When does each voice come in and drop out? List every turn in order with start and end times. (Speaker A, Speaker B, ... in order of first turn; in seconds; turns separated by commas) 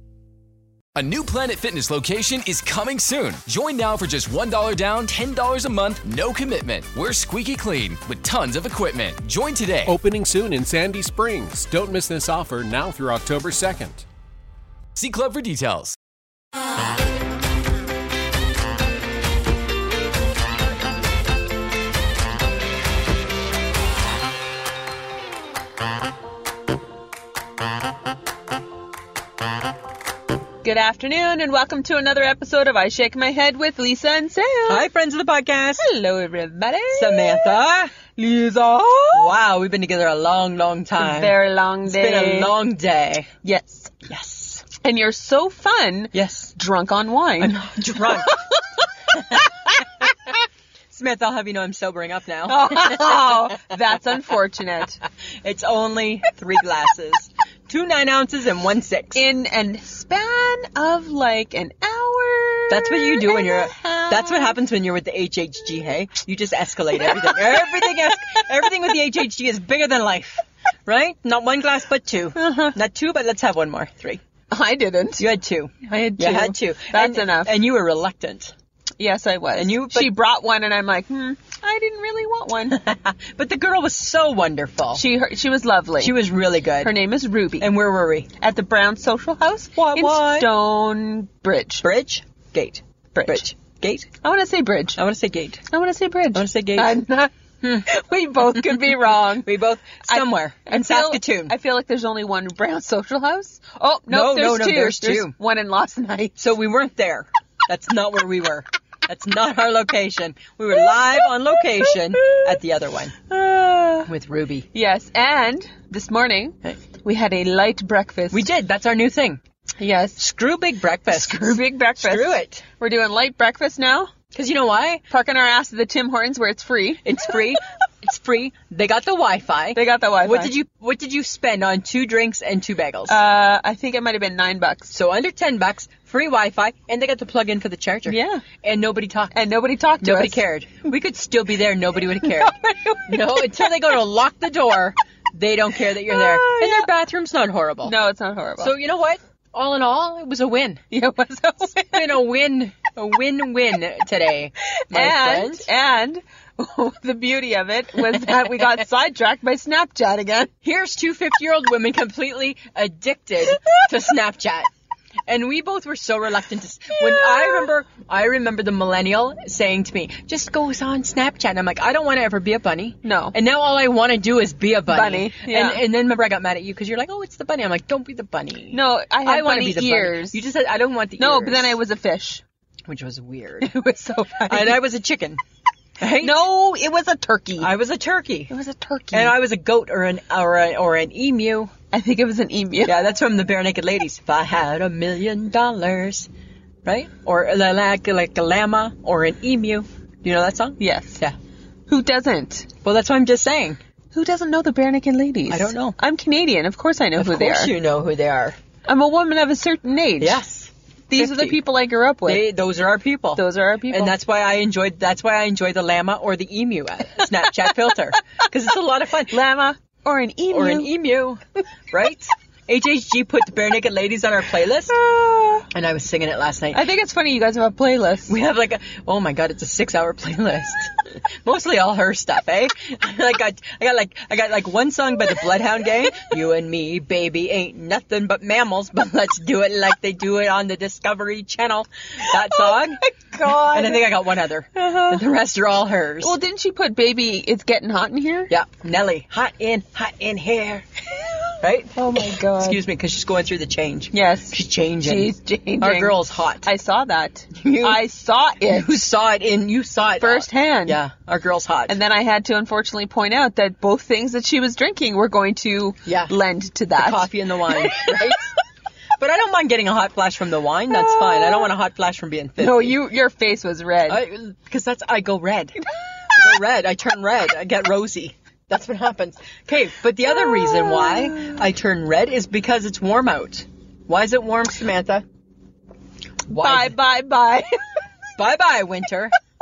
Speaker A: 0.9-10.0, Speaker B: 9.8-14.0, Speaker A: 14.9-15.9, Speaker C: 30.6-34.9, Speaker D: 34.7-35.8, Speaker C: 35.8-37.5, Speaker D: 36.9-38.0, Speaker C: 38.1-39.3, Speaker D: 39.1-43.3, Speaker C: 41.0-42.5, Speaker C: 43.4-43.9, Speaker D: 44.0-44.6, Speaker C: 44.8-47.5, Speaker D: 46.1-46.5, Speaker D: 47.4-48.3, Speaker C: 48.2-48.6, Speaker D: 50.9-53.5, Speaker C: 52.5-55.0, Speaker D: 55.4-59.2, Speaker C: 59.1-64.6, Speaker D: 62.7-74.2, Speaker C: 67.0-67.7, Speaker C: 72.4-72.7, Speaker C: 74.5-75.2, Speaker D: 75.2-78.5, Speaker C: 76.2-77.5, Speaker C: 79.0-82.8, Speaker D: 79.6-80.1, Speaker D: 82.7-85.0, Speaker C: 84.9-86.2, Speaker D: 86.0-86.9, Speaker C: 86.8-87.7, Speaker D: 87.6-88.3, Speaker C: 88.4-91.8, Speaker D: 89.8-90.5, Speaker D: 91.8-94.1, Speaker C: 93.1-93.4, Speaker C: 94.2-95.0, Speaker D: 95.0-95.6, Speaker C: 95.7-97.3, Speaker D: 96.3-97.0, Speaker D: 97.6-97.9, Speaker C: 97.8-99.5, Speaker D: 98.5-101.5, Speaker C: 100.1-106.4, Speaker D: 104.1-105.3, Speaker D: 106.4-113.2, Speaker C: 111.9-112.5, Speaker C: 113.3-114.1, Speaker D: 114.1-114.7, Speaker C: 114.7-118.5, Speaker D: 118.3-119.4, Speaker C: 119.8-120.2, Speaker D: 120.2-122.6, Speaker C: 121.1-124.1, Speaker D: 124.3-125.0, Speaker C: 125.1-127.2, Speaker D: 127.0-133.2, Speaker C: 129.7-130.5, Speaker C: 133.1-134.9, Speaker D: 134.9-139.4, Speaker C: 138.1-138.4, Speaker C: 139.3-140.4, Speaker D: 140.0-147.9, Speaker C: 146.1-146.9, Speaker C: 147.8-148.7, Speaker D: 148.6-151.0, Speaker C: 150.9-152.2, Speaker D: 151.7-155.7, Speaker C: 154.9-160.5, Speaker D: 158.1-158.7, Speaker D: 160.6-164.7, Speaker D: 165.3-181.8, Speaker C: 167.1-167.7, Speaker C: 173.0-173.3, Speaker C: 174.9-175.8, Speaker C: 178.7-180.4, Speaker C: 181.2-182.4, Speaker D: 182.9-185.4, Speaker C: 183.8-184.8, Speaker D: 186.0-186.4, Speaker C: 186.2-187.7, Speaker D: 187.6-188.5, Speaker C: 188.5-189.3, Speaker D: 189.1-191.7, Speaker C: 191.9-192.9, Speaker D: 192.8-196.3, Speaker D: 196.8-201.3, Speaker C: 200.8-201.2, Speaker C: 201.9-202.7, Speaker D: 202.8-203.8, Speaker C: 204.1-207.7, Speaker D: 205.5-205.9, Speaker D: 207.2-208.6, Speaker C: 208.9-210.4, Speaker D: 210.2-211.6, Speaker C: 211.1-212.4, Speaker D: 212.2-219.4, Speaker C: 213.3-214.2, Speaker C: 219.3-220.9, Speaker D: 220.5-224.9, Speaker C: 224.9-225.7, Speaker D: 225.7-226.8, Speaker C: 226.7-228.3, Speaker D: 228.3-230.9, Speaker D: 231.4-246.3, Speaker C: 242.5-244.2, Speaker C: 244.7-245.2, Speaker C: 246.2-248.5, Speaker D: 248.5-250.8, Speaker D: 251.6-251.9, Speaker C: 251.9-252.8, Speaker D: 252.6-256.7, Speaker C: 254.1-259.0, Speaker D: 257.5-258.0, Speaker D: 258.7-261.9, Speaker C: 260.2-261.0, Speaker C: 261.9-268.2, Speaker D: 266.1-266.3, Speaker D: 267.0-268.5, Speaker D: 269.2-273.0, Speaker C: 270.9-271.7, Speaker C: 272.6-274.2, Speaker D: 274.1-275.8, Speaker D: 276.3-285.2, Speaker C: 280.2-281.6, Speaker D: 286.5-286.9, Speaker C: 286.5-287.8, Speaker D: 288.4-289.3